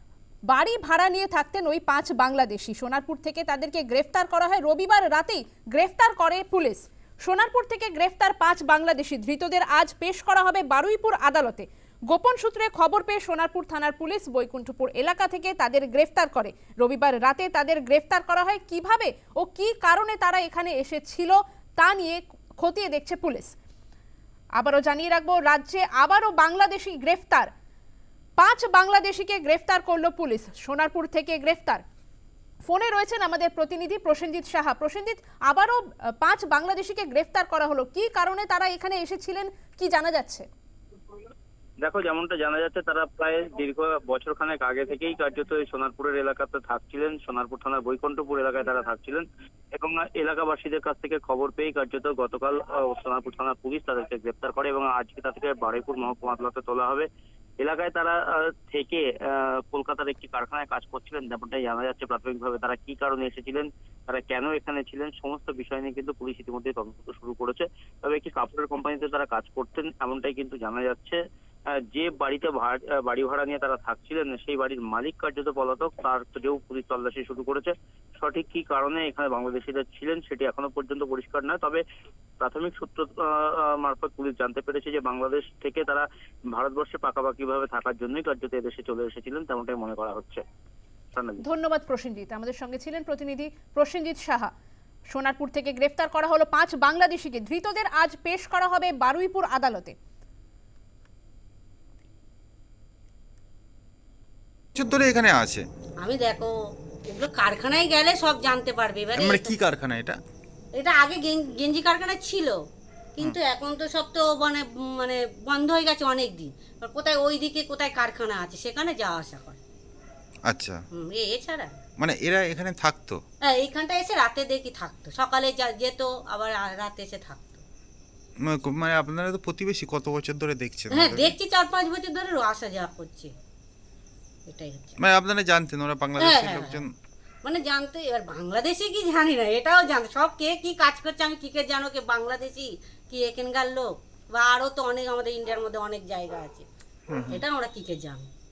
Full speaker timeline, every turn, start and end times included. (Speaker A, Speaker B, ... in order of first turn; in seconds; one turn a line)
Speaker A: 0.5-23.5
Speaker A: 24.6-27.5
Speaker A: 28.4-31.8
Speaker A: 32.7-40.5
Speaker B: 41.8-57.1
Speaker B: 57.6-71.2
Speaker B: 71.8-81.8
Speaker B: 82.4-90.4
Speaker B: 91.1-91.4
Speaker A: 91.4-94.5
Speaker A: 95.1-100.0
Speaker C: 104.8-105.6
Speaker D: 106.0-106.5
Speaker D: 107.1-109.5
Speaker C: 109.2-110.2
Speaker D: 110.8-112.6
Speaker D: 113.2-119.6
Speaker C: 120.5-120.8
Speaker D: 120.9-121.7
Speaker C: 122.0-123.2
Speaker D: 123.5-127.6
Speaker C: 128.5-131.3
Speaker D: 130.9-133.3
Speaker D: 134.5-135.0
Speaker C: 135.0-136.9
Speaker D: 136.2-136.8
Speaker D: 137.4-146.7
Speaker C: 147.1-147.4
Speaker D: 147.3-148.3